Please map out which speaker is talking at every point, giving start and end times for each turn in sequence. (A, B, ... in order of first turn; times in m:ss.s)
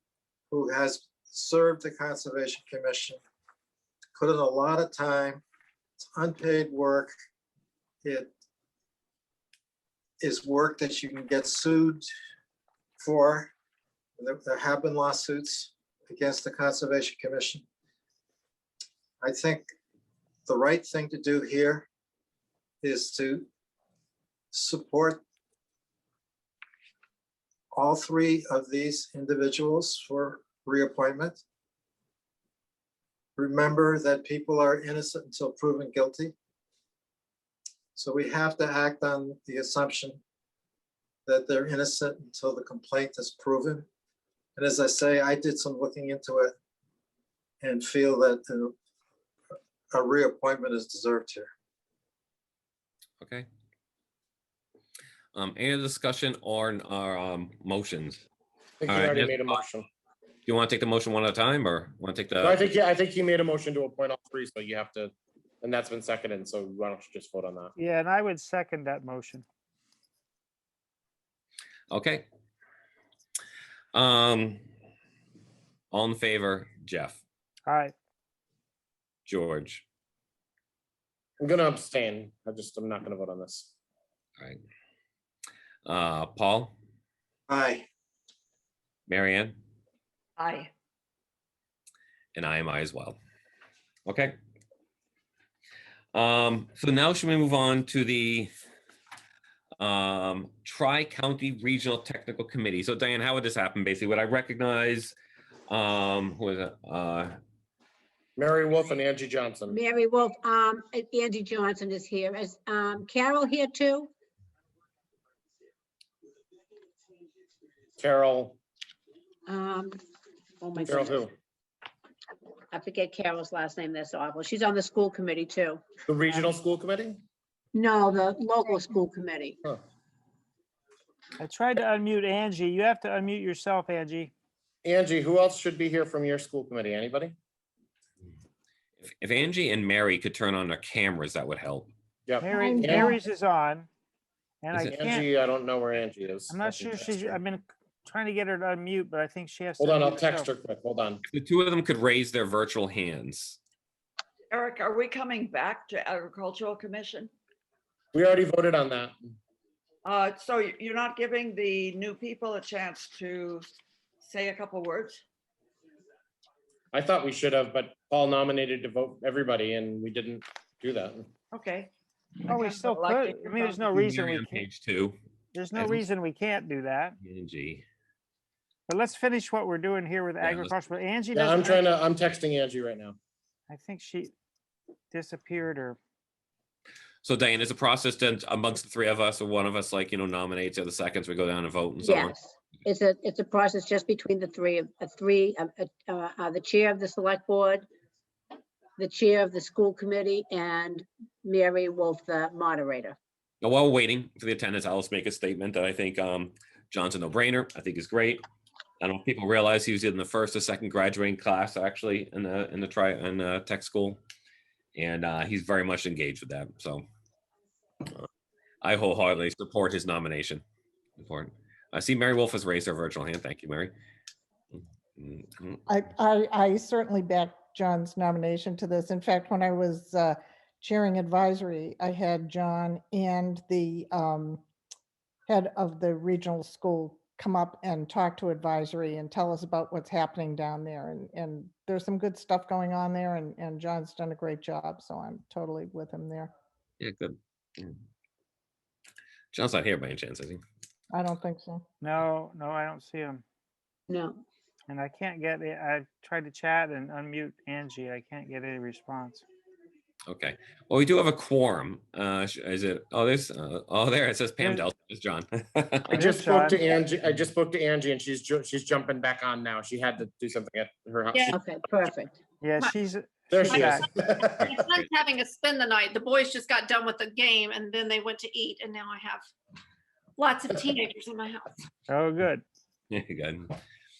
0:00.5-0:03.2 A
0:04.1-0:05.4 A
0:06.1-0:07.1 A
0:08.0-0:08.3 A
0:10.2-0:12.0 A
0:13.0-0:13.5 A
0:14.2-0:17.6 A
0:19.2-0:19.7 A
0:20.4-0:21.9 A
0:22.8-0:23.5 A
0:24.5-0:25.2 A
0:27.7-0:31.4 A
0:33.4-0:36.3 A
0:37.9-0:40.2 A
0:41.2-0:43.9 A
0:44.6-0:46.5 A
0:47.6-0:48.7 A
0:49.9-0:51.5 A
0:53.2-0:53.4 B
0:55.3-0:58.2 B
0:58.8-0:59.8 C
0:58.9-0:59.6 B
1:00.5-1:02.6 B
1:02.4-1:07.7 C
1:07.8-1:09.4 D
1:11.9-1:12.2 B
1:13.9-1:14.6 B
1:15.9-1:17.2 B
1:17.7-1:17.9 D
1:19.3-1:19.8 B
1:21.4-1:23.7 C
1:25.8-1:26.7 B
1:27.5-1:27.8 A
1:29.1-1:29.6 B
1:30.4-1:30.7 E
1:32.3-1:33.2 B
1:34.1-1:34.3 B
1:36.1-1:38.5 B
1:39.8-1:45.1 B
1:45.7-1:47.4 B
1:48.4-1:49.8 C
1:49.7-1:54.1 F
1:58.0-1:58.6 C
1:59.5-2:00.0 F
2:00.6-2:01.3 F
2:00.8-2:01.3 C
2:02.7-2:05.8 F
2:06.0-2:07.2 C
2:07.7-2:09.6 F
2:11.4-2:14.3 D
2:14.8-2:17.3 C
2:19.0-2:21.9 B
2:22.3-2:23.2 C
2:22.4-2:23.9 D
2:22.6-2:23.1 G
2:24.6-2:25.3 D
2:24.7-2:27.4 C
2:26.5-2:30.5 D
2:29.8-2:31.2 C
2:31.3-2:33.6 B
2:34.5-2:37.3 E
2:38.1-2:39.1 C
2:40.0-2:43.7 E
2:44.2-2:45.2 E
2:46.9-2:51.3 C
2:51.5-2:51.9 E
2:52.5-2:54.6 D
2:52.5-2:53.9 E
2:53.9-2:55.2 B
2:55.5-2:57.2 D
2:55.8-2:56.0 B
2:57.2-2:57.8 B
2:58.9-3:01.8 D
3:00.4-3:00.7 B
3:01.3-3:03.2 C
3:03.7-3:04.3 D
3:05.1-3:06.0 D
3:07.2-3:12.3 B
3:12.0-3:17.8 F
3:19.0-3:23.2 F
3:23.6-3:28.4 B
3:29.0-3:34.2 B
3:35.0-3:37.0 B
3:38.8-3:40.6 B
3:41.2-3:43.9 B
3:45.2-3:45.8 B
3:45.9-3:54.6 G
3:55.5-4:06.5 G
4:07.0-4:08.0 B
4:09.5-4:10.6 B
4:11.1-4:11.8 G
4:12.0-4:13.4 D
4:14.1-4:14.4 F
4:14.9-4:19.4 D
4:20.3-4:26.2 B
4:26.1-4:26.9 D
4:26.1-4:31.6 C
4:31.5-4:32.4 F
4:32.6-4:34.0 D
4:33.5-4:34.9 C
4:33.7-4:39.4 H
4:40.4-4:41.7 H
4:42.1-4:42.6 D
4:43.1-4:43.8 B